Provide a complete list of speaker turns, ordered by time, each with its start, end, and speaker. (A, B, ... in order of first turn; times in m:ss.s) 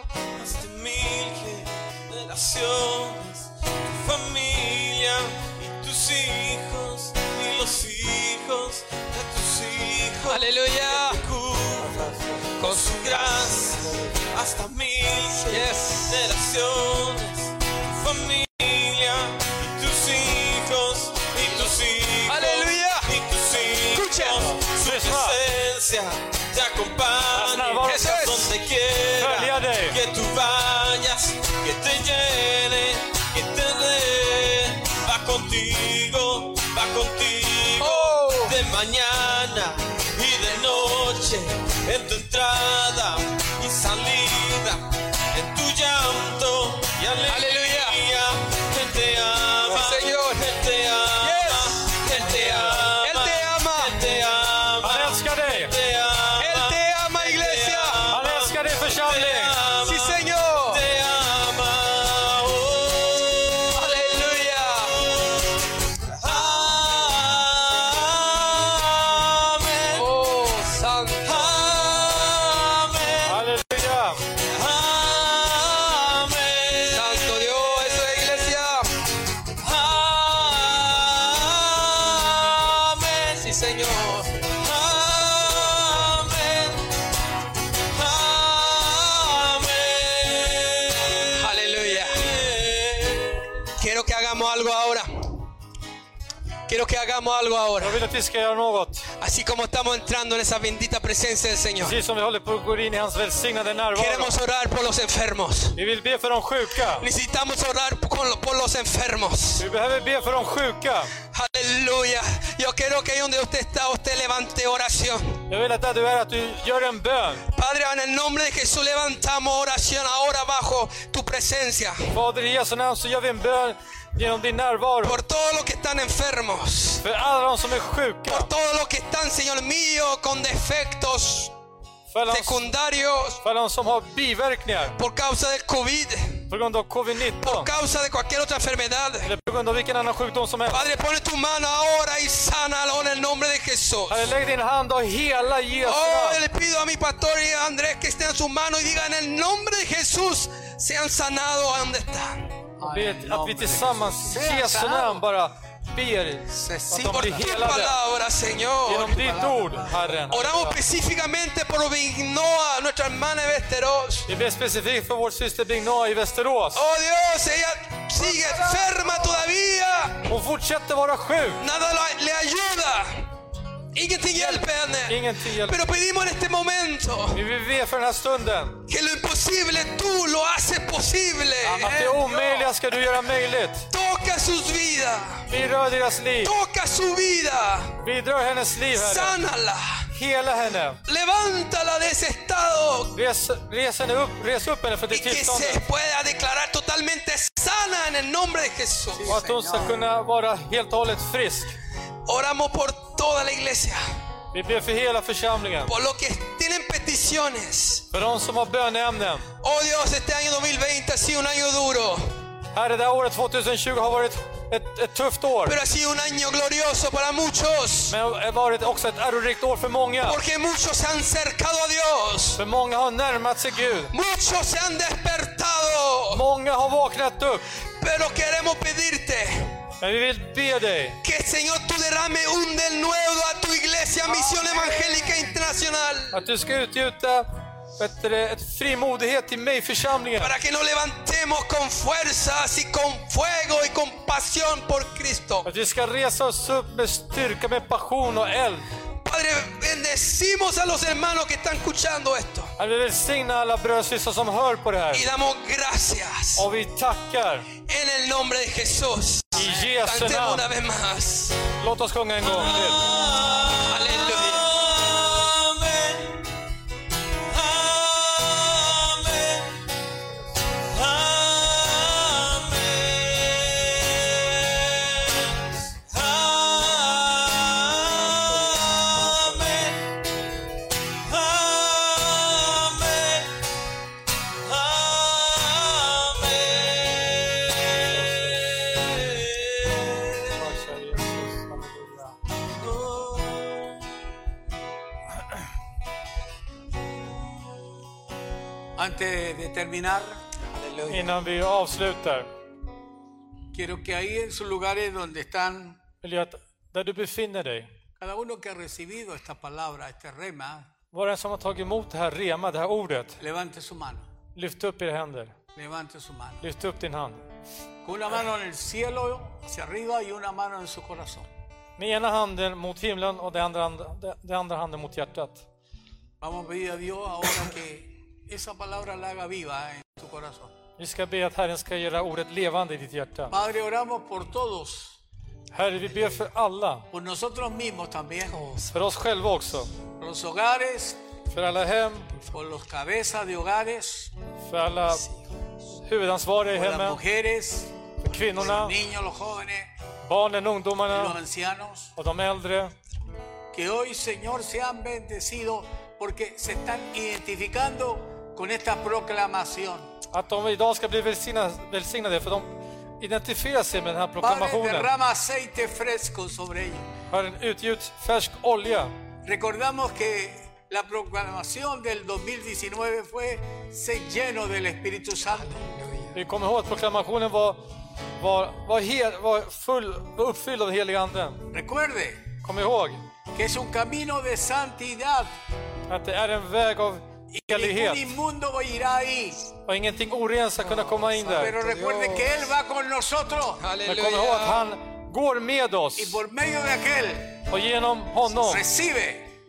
0:00.4-1:10.1 A
0:10.2-0:11.2 B
0:11.8-0:12.6 C
0:12.6-0:13.1 B
0:13.7-0:14.1 C
0:15.5-0:16.3 B
0:22.3-0:23.1 B
0:23.9-0:24.5 B
0:24.4-0:25.4 C
0:27.3-0:28.1 C
0:27.8-0:28.5 B
0:29.2-0:30.0 C
0:37.8-0:38.6 B
0:47.3-0:48.0 B
0:49.6-0:50.6 B
0:51.2-0:54.0 B
0:54.8-0:55.7 C
0:56.4-0:58.0 B
0:58.1-0:59.6 C
0:59.8-1:00.8 B
1:03.7-1:05.0 B
1:09.9-1:11.6 B
1:11.2-1:13.4 A
1:13.3-1:14.2 C
1:14.4-1:18.2 A
1:16.8-1:18.9 B
1:19.6-1:23.5 A
1:23.4-1:24.4 B
1:24.5-1:26.9 A
1:27.9-1:33.6 A
1:31.4-1:32.3 B
1:33.8-1:35.4 B
1:36.7-1:38.0 B
1:37.8-1:39.1 C
1:39.2-1:42.0 B
1:41.8-1:44.3 C
1:44.0-1:45.8 B
1:45.8-1:47.1 C
1:47.0-1:49.6 B
1:49.6-1:51.1 C
1:51.2-1:55.4 B
1:55.5-1:57.4 C
1:57.5-2:02.0 B
2:02.1-2:05.2 C
2:05.0-2:07.0 B
2:07.0-2:08.5 C
2:08.3-2:11.5 B
2:12.1-2:12.7 C
2:12.3-2:13.4 B
2:13.4-2:15.0 C
2:15.0-2:16.4 B
2:16.5-2:17.7 C
2:17.4-2:19.3 B
2:19.2-2:20.8 C
2:20.7-2:24.2 B
2:24.1-2:26.4 C
2:25.8-2:32.5 B
2:32.8-2:35.2 D
2:32.8-2:38.0 C
2:36.5-2:37.5 D
2:37.0-2:39.2 B
2:38.8-2:40.8 C
2:39.0-2:40.3 D
2:40.3-2:44.3 B
2:44.3-2:46.8 C
2:46.8-2:50.3 B
2:48.2-2:49.5 D
2:50.3-2:51.6 C
2:51.6-2:53.2 B
2:53.9-2:57.4 B
2:54.3-2:55.8 C
2:57.3-2:58.8 C
2:58.9-3:02.0 B
3:01.6-3:02.8 D
3:01.8-3:03.9 C
3:03.9-3:05.5 B
3:05.5-3:06.5 C
3:06.4-3:08.0 B
3:08.0-3:09.4 C
3:08.9-3:10.1 B
3:10.1-3:11.0 C
3:11.1-3:13.2 B
3:13.1-3:15.8 C
3:15.1-3:19.4 B
3:19.2-3:20.0 D
3:19.3-3:21.7 C
3:22.3-3:24.0 B
3:24.5-3:25.9 C
3:25.9-3:28.1 B
3:28.1-3:29.5 C
3:29.6-3:32.2 B
3:32.7-3:35.8 C
3:35.7-3:38.2 B
3:38.1-3:40.4 C
3:40.2-3:42.6 B
3:42.6-3:44.1 C
3:44.1-3:46.4 B
3:46.3-3:47.7 C
3:48.0-3:49.7 B
3:50.0-3:51.2 C
3:51.2-3:56.5 B
3:54.3-3:55.4 D
3:56.3-4:00.5 C
4:00.4-4:05.7 B
4:05.6-4:08.9 C
4:09.2-4:12.7 B
4:12.8-4:15.3 C
4:15.1-4:16.7 B
4:16.6-4:17.7 C
4:17.8-4:21.6 B
4:19.6-4:20.6 C
4:21.8-4:23.0 C
4:22.4-4:26.5 A
4:23.9-4:24.7 B
4:27.5-4:29.8 A
4:30.8-4:40.1 A
4:41.2-4:43.6 A
4:44.5-4:50.7 A
4:48.1-4:48.6 C
4:50.6-4:52.4 C
4:52.7-4:54.1 A
4:59.0-5:01.3 D
5:01.1-5:02.5 C
5:03.7-5:06.0 D
5:06.2-5:07.9 C
5:08.2-5:10.9 D
5:11.1-5:13.4 C
5:13.4-5:14.2 D
5:14.6-5:15.6 C
5:15.8-5:16.6 D
5:16.6-5:17.4 C
5:18.0-5:21.5 D
5:22.0-5:25.6 C
5:26.4-5:30.7 D
5:31.0-5:33.5 C
5:33.5-5:35.2 D
5:35.7-5:37.1 C
5:37.1-5:38.9 D
5:38.8-5:39.9 C
5:40.2-5:41.2 D
5:41.5-5:42.4 C
5:42.5-5:44.3 D
5:44.7-5:45.3 C
5:46.0-5:47.2 C
5:46.7-5:49.9 D
5:48.2-5:49.0 C
5:50.3-5:51.4 C
5:51.1-5:52.1 D
5:52.2-5:52.9 C
5:53.7-6:00.1 D
6:00.3-6:02.7 C
6:03.2-6:05.1 C
6:04.4-6:07.1 D
6:07.3-6:09.1 C
6:09.5-6:16.3 D
6:16.3-6:17.8 C
6:18.4-6:21.6 C
6:21.7-6:22.5 D
6:22.6-6:23.2 C
6:23.5-6:25.5 D
6:26.1-6:28.2 C
6:27.5-6:29.7 D
6:29.9-6:31.8 C
6:30.9-6:33.8 D
6:31.8-6:32.6 B
6:33.8-6:34.9 B
6:34.0-6:36.4 C
6:36.2-6:37.6 D
6:37.7-6:38.8 C
6:38.6-6:39.5 D